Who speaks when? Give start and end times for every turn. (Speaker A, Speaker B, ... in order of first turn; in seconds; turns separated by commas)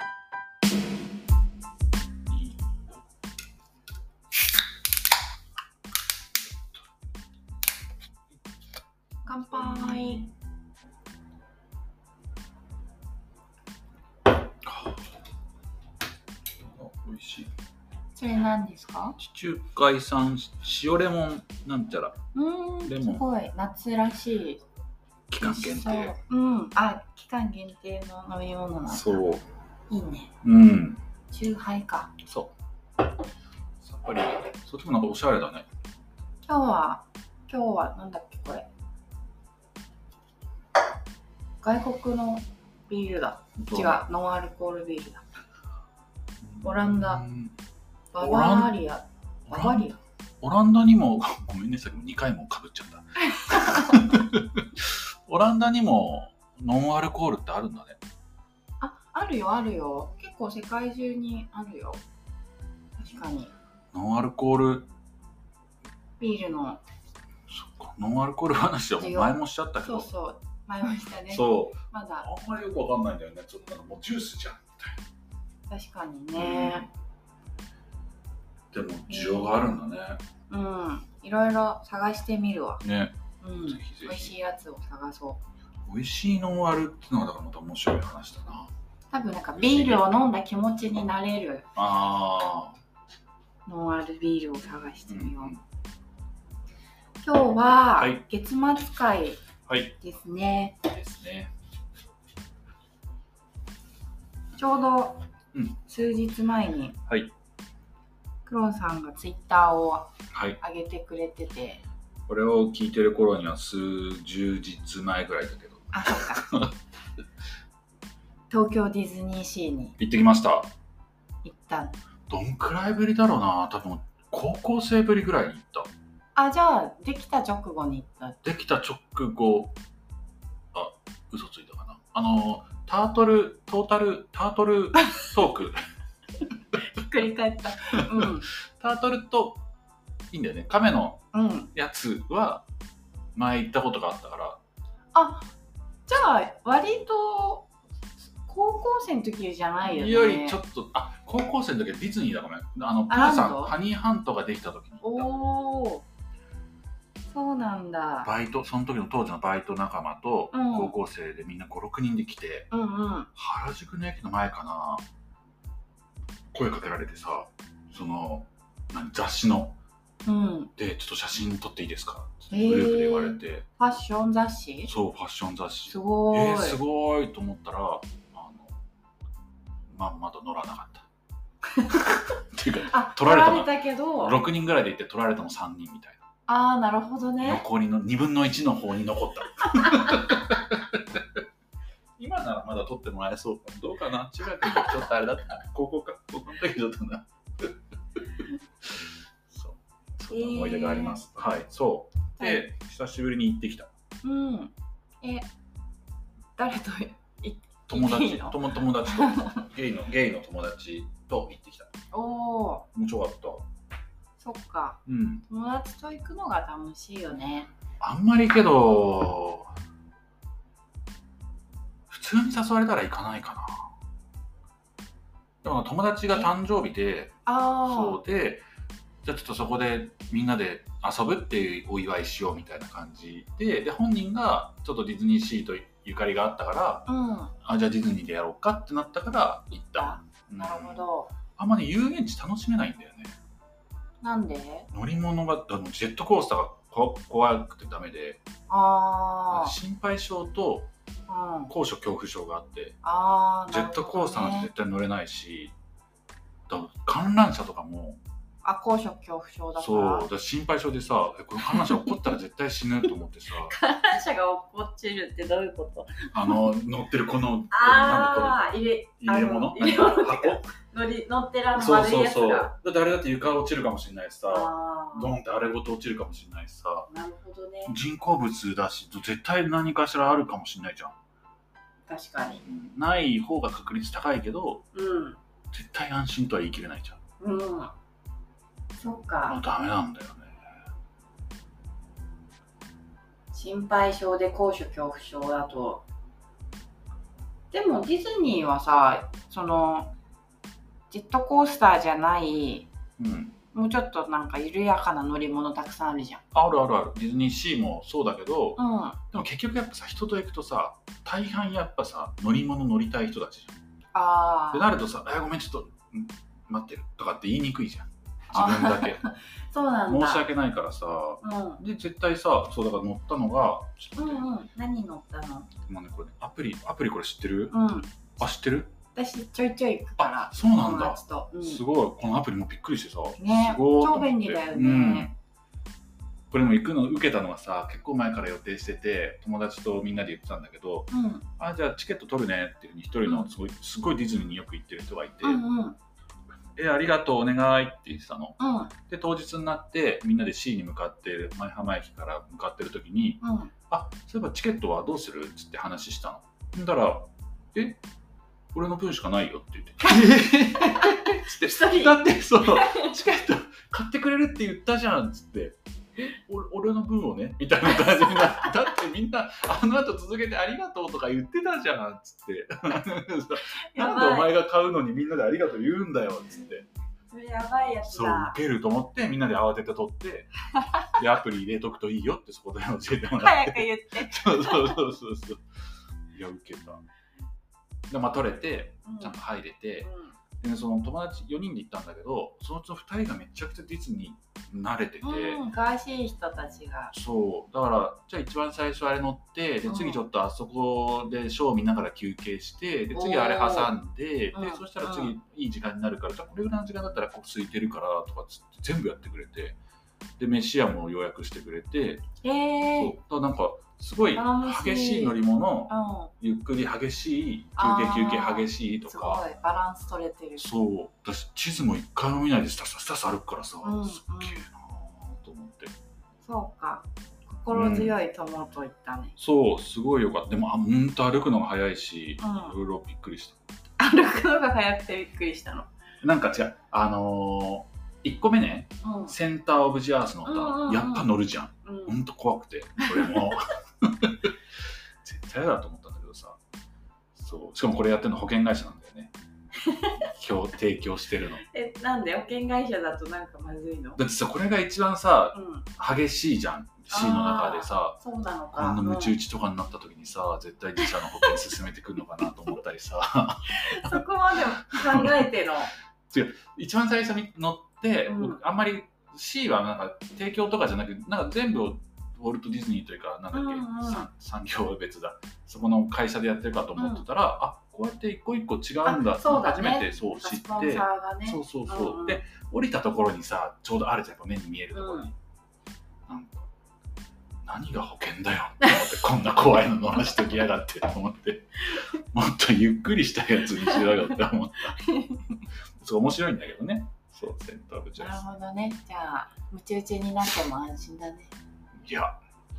Speaker A: 2.3-2.6, Speaker B: 9.3-10.2, Speaker A: 9.5-10.3, Speaker A: 14.6-15.1, Speaker A: 16.6-17.5, Speaker B: 18.2-19.2, Speaker A: 19.2-22.2, Speaker B: 22.3-24.6, Speaker A: 22.9-23.2, Speaker A: 25.3-26.1, Speaker B: 25.4-29.2, Speaker A: 28.9-29.4, Speaker B: 29.9-30.3, Speaker A: 30.4-31.0, Speaker B: 31.3-32.1, Speaker A: 32.2-32.5, Speaker A: 33.8-35.7, Speaker B: 36.5-38.7, Speaker B: 41.6-45.2, Speaker A: 43.6-44.0, Speaker A: 46.4-47.5, Speaker B: 46.6-47.2, Speaker B: 48.1-50.0, Speaker A: 48.2-48.8, Speaker A: 49.5-58.0, Speaker B: 53.3-53.9, Speaker B: 58.8-62.0, Speaker B: 63.0-63.5, Speaker A: 63.9-64.9, Speaker B: 66.2-66.8, Speaker A: 67.5-70.1, Speaker B: 69.0-72.3, Speaker A: 71.3-75.0, Speaker B: 75.7-76.9, Speaker A: 76.4-76.9, Speaker A: 78.7-80.2, Speaker B: 79.1-79.6, Speaker B: 80.5-82.8, Speaker A: 82.8-83.2, Speaker B: 83.4-85.4, Speaker A: 83.7-84.3, Speaker A: 85.9-88.7, Speaker B: 89.1-91.7, Speaker A: 89.6-90.2, Speaker A: 91.8-92.8, Speaker B: 93.7-95.5, Speaker A: 95.1-95.6, Speaker B: 97.2-99.4, Speaker A: 98.0-98.2, Speaker A: 99.7-100.0, Speaker B: 100.0-100.8, Speaker A: 100.9-101.5, Speaker B: 104.6-105.2, Speaker A: 105.5-105.8, Speaker B: 105.9-107.0, Speaker B: 108.5-111.8, Speaker A: 110.3-110.6, Speaker A: 112.3-116.7, Speaker B: 115.9-116.5, Speaker B: 118.5-120.0, Speaker A: 120.0-120.7, Speaker B: 121.4-122.0, Speaker A: 122.3-125.9, Speaker B: 126.3-128.4, Speaker A: 128.4-129.8, Speaker A: 130.7-135.8, Speaker B: 135.0-135.3, Speaker B: 136.9-138.5, Speaker A: 137.9-139.6, Speaker A: 140.3-142.7, Speaker B: 141.3-141.7, Speaker A: 143.3-144.6, Speaker B: 145.1-145.5, Speaker B: 146.1-147.7, Speaker B: 148.4-150.6, Speaker A: 149.8-155.3, Speaker B: 153.1-153.8, Speaker B: 155.0-156.1, Speaker B: 157.3-158.3, Speaker A: 158.2-162.7, Speaker B: 160.5-160.9, Speaker B: 162.7-163.3, Speaker A: 163.4-165.0, Speaker A: 166.5-169.8, Speaker B: 170.2-170.7, Speaker A: 170.8-173.7, Speaker B: 172.5-174.9, Speaker A: 174.9-178.8, Speaker B: 175.9-176.8, Speaker A: 179.9-181.1, Speaker A: 182.2-186.2, Speaker B: 182.8-184.4, Speaker B: 186.5-187.6, Speaker A: 187.4-191.4, Speaker A: 192.2-197.8, Speaker A: 198.8-203.9, Speaker B: 200.3-201.2, Speaker B: 202.4-202.6, Speaker B: 204.2-205.5, Speaker B: 206.6-209.7, Speaker A: 207.9-211.9, Speaker B: 212.1-212.9, Speaker A: 212.9-213.6, Speaker B: 214.4-217.7, Speaker A: 215.1-215.4, Speaker A: 218.0-219.7, Speaker A: 222.1-223.9, Speaker A: 225.6-228.6, Speaker B: 227.5-228.2, Speaker A: 229.2-237.1, Speaker B: 237.1-237.5, Speaker A: 237.6-243.4, Speaker B: 240.0-241.3, Speaker B: 244.2-244.9, Speaker A: 244.9-248.4, Speaker B: 248.7-249.8, Speaker A: 249.5-250.9, Speaker B: 251.3-251.7, Speaker A: 251.7-253.0, Speaker B: 253.0-254.7, Speaker A: 253.7-255.7, Speaker A: 256.7-258.2, Speaker B: 258.6-260.3, Speaker A: 259.8-263.7, Speaker B: 261.6-262.4, Speaker B: 263.6-266.6, Speaker A: 266.3-268.6, Speaker B: 267.7-272.7, Speaker A: 269.2-270.6, Speaker A: 271.7-277.1, Speaker B: 274.5-275.3, Speaker B: 277.1-278.0, Speaker A: 277.9-281.2, Speaker B: 282.1-282.6, Speaker A: 282.6-284.9, Speaker B: 284.9-285.4, Speaker A: 285.7-287.2, Speaker B: 287.4-287.9, Speaker B: 289.0-289.6, Speaker A: 289.5-290.5, Speaker B: 293.5-296.0, Speaker B: 297.7-300.1, Speaker B: 301.1-302.9, Speaker A: 303.2-303.6, Speaker B: 303.7-306.4, Speaker A: 306.5-308.8, Speaker B: 308.8-309.2, Speaker A: 309.3-313.8, Speaker B: 314.1-314.9, Speaker A: 314.7-319.2, Speaker B: 318.5-320.5, Speaker A: 320.1-324.5, Speaker B: 321.4-321.8, Speaker B: 324.2-325.7, Speaker A: 325.9-327.7, Speaker B: 327.7-328.1, Speaker A: 328.4-328.9, Speaker B: 329.1-331.8, Speaker A: 330.2-335.4, Speaker B: 333.4-335.3, Speaker A: 336.5-345.6, Speaker B: 341.1-341.5, Speaker B: 345.4-346.0, Speaker A: 346.8-358.0, Speaker B: 348.6-348.9, Speaker B: 353.4-353.7, Speaker A: 358.7-376.9, Speaker B: 360.1-363.1, Speaker B: 368.3-368.6, Speaker B: 373.9-374.5, Speaker B: 377.3-378.6, Speaker A: 378.1-380.5, Speaker B: 380.8-381.1, Speaker A: 381.1-385.6, Speaker B: 383.4-385.0, Speaker A: 386.3-387.0, Speaker A: 388.1-390.1, Speaker B: 389.1-389.4, Speaker B: 390.0-390.3, Speaker A: 390.6-395.6, Speaker B: 395.2-397.1, Speaker A: 397.1-409.8, Speaker B: 399.9-400.2, Speaker B: 403.1-403.9, Speaker B: 404.5-405.3, Speaker A: 410.4-412.3, Speaker B: 412.4-413.2, Speaker A: 412.9-419.4, Speaker B: 414.3-415.4, Speaker B: 415.9-416.3, Speaker B: 417.8-420.7, Speaker A: 420.6-425.9, Speaker B: 423.8-424.7, Speaker B: 426.4-429.4, Speaker A: 427.7-428.2, Speaker A: 429.4-433.6, Speaker B: 432.4-432.8, Speaker B: 434.0-435.9, Speaker A: 436.2-444.5, Speaker B: 439.0-439.4, Speaker B: 440.4-441.3, Speaker B: 441.9-442.1, Speaker B: 443.0-443.5, Speaker A: 445.2-446.6, Speaker A: 447.4-449.3, Speaker B: 449.8-450.2, Speaker A: 450.2-451.6, Speaker B: 451.6-454.2, Speaker A: 454.2-458.2, Speaker B: 455.5-455.9, Speaker B: 457.1-459.4, Speaker A: 458.7-465.5, Speaker B: 461.1-461.5, Speaker B: 463.7-465.9, Speaker A: 466.3-485.3, Speaker B: 468.3-468.6, Speaker B: 473.5-474.3, Speaker B: 477.0-477.2, Speaker B: 479.1-482.4, Speaker B: 484.9-485.3, Speaker A: 486.3-486.7, Speaker A: 487.6-495.0, Speaker B: 495.0-495.6, Speaker A: 496.0-498.4, Speaker B: 498.2-501.5, Speaker A: 502.0-502.4